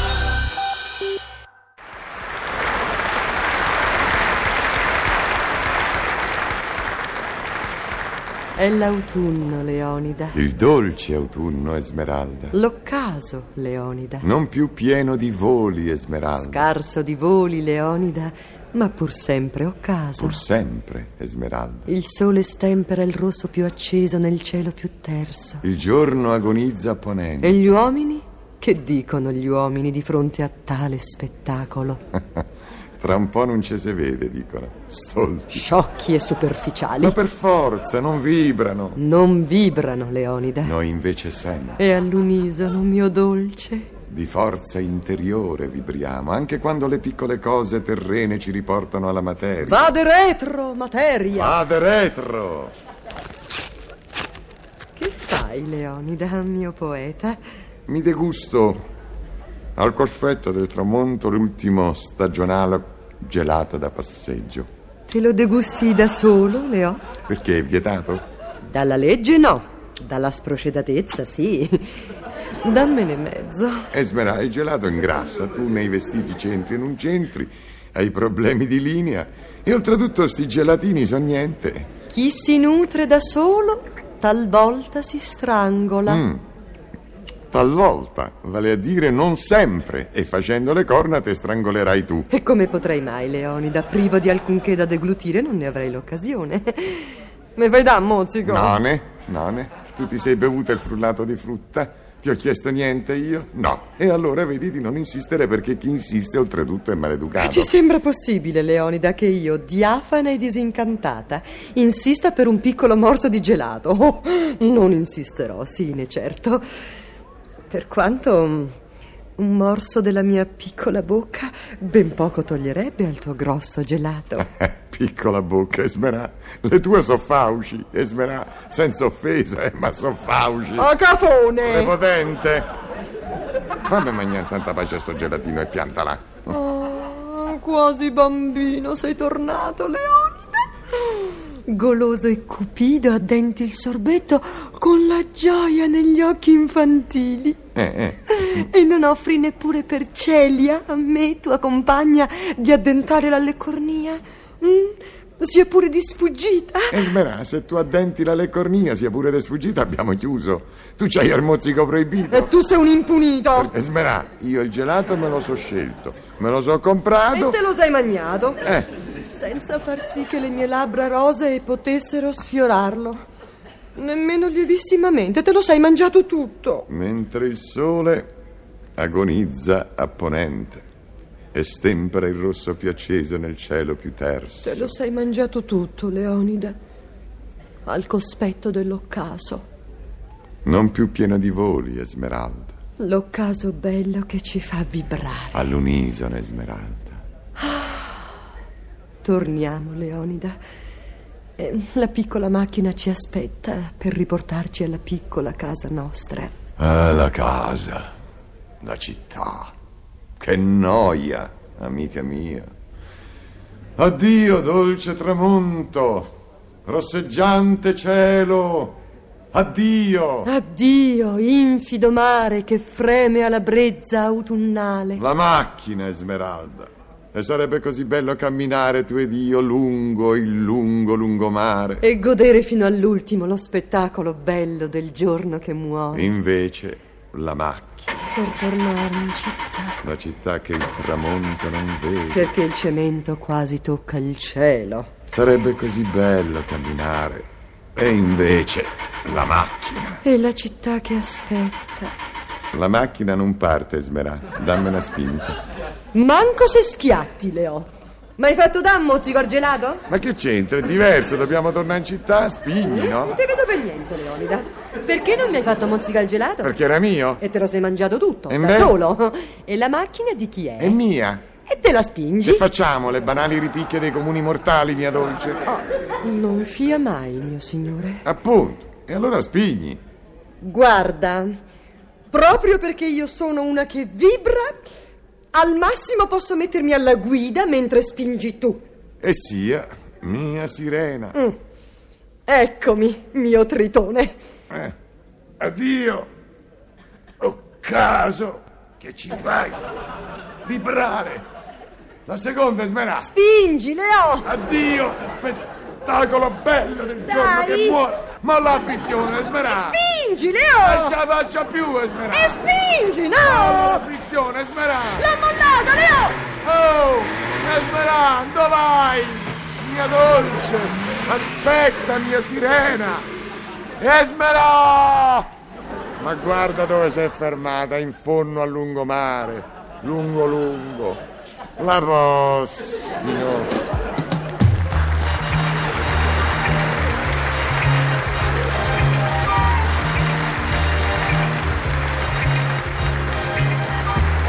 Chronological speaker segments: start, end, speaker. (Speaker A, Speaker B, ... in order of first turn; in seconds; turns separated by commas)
Speaker A: 8.6-10.4, Speaker B: 10.3-12.6, Speaker A: 12.5-14.3, Speaker B: 14.2-16.7, Speaker A: 16.4-20.4, Speaker B: 20.2-21.9, Speaker A: 21.9-25.6, Speaker B: 25.6-27.6, Speaker A: 27.4-32.0, Speaker B: 32.2-32.4, Speaker B: 33.0-35.7, Speaker A: 35.5-37.2, Speaker B: 37.0-39.0, Speaker A: 39.0-40.7, Speaker B: 40.6-41.8, Speaker A: 41.8-43.9, Speaker B: 44.1-49.9, Speaker A: 49.6-51.6, Speaker B: 51.4-52.7, Speaker A: 55.0-57.4, Speaker B: 57.9-58.9, Speaker B: 59.8-64.7, Speaker A: 65.1-67.0, Speaker B: 67.3-68.2, Speaker A: 68.7-72.1, Speaker A: 72.6-73.9, Speaker B: 73.9-81.9, Speaker A: 82.1-86.2, Speaker B: 86.1-86.4, Speaker B: 87.5-92.3, Speaker A: 92.3-98.8, Speaker B: 98.5-107.7, Speaker A: 107.4-116.7, Speaker A: 117.7-118.8, Speaker A: 119.4-124.5, Speaker B: 124.4-130.9, Speaker A: 130.8-132.0, Speaker B: 131.6-132.7, Speaker B: 133.8-136.5, Speaker A: 136.5-147.6, Speaker B: 147.8-148.3, Speaker A: 148.2-157.1, Speaker B: 156.9-162.5, Speaker A: 162.3-163.7, Speaker B: 163.6-167.6, Speaker A: 167.3-168.7, Speaker A: 169.3-173.3, Speaker A: 173.9-176.9, Speaker B: 176.9-178.3, Speaker B: 179.0-180.9, Speaker B: 181.5-184.9, Speaker A: 184.6-186.8, Speaker A: 187.9-189.7, Speaker B: 190.7-192.8, Speaker A: 193.0-195.6, Speaker B: 195.5-197.2, Speaker A: 197.6-198.4, Speaker A: 199.2-200.6, Speaker A: 201.6-206.5, Speaker B: 206.8-208.1, Speaker B: 208.8-209.7, Speaker B: 210.4-212.7, Speaker B: 214.0-219.0, Speaker B: 219.5-220.5, Speaker A: 220.4-225.2, Speaker B: 225.2-232.1, Speaker A: 232.0-236.3, Speaker B: 236.1-238.2, Speaker A: 238.3-240.0, Speaker B: 240.0-242.5, Speaker A: 242.3-245.1, Speaker B: 245.3-250.2, Speaker A: 250.2-252.1, Speaker B: 252.7-255.6, Speaker A: 256.1-260.0, Speaker B: 260.1-263.4, Speaker A: 262.8-266.8, Speaker B: 266.6-267.4, Speaker A: 267.4-271.0, Speaker B: 268.5-269.0, Speaker B: 270.8-271.4, Speaker A: 271.6-272.7, Speaker B: 272.4-275.6, Speaker A: 275.7-278.3, Speaker B: 278.2-280.0, Speaker A: 280.6-281.5, Speaker A: 282.3-284.9, Speaker A: 285.5-288.8, Speaker B: 289.2-291.4, Speaker A: 292.5-294.4, Speaker B: 295.6-296.3, Speaker B: 297.4-299.9, Speaker B: 300.6-301.4, Speaker B: 302.3-303.3, Speaker A: 303.2-304.5, Speaker B: 304.4-310.0, Speaker A: 307.3-308.0, Speaker A: 309.7-311.2, Speaker B: 310.8-312.6, Speaker A: 312.3-314.1, Speaker B: 313.4-315.3, Speaker A: 315.2-316.4, Speaker B: 316.6-323.3, Speaker B: 324.0-325.5, Speaker B: 326.2-331.2, Speaker B: 331.8-333.8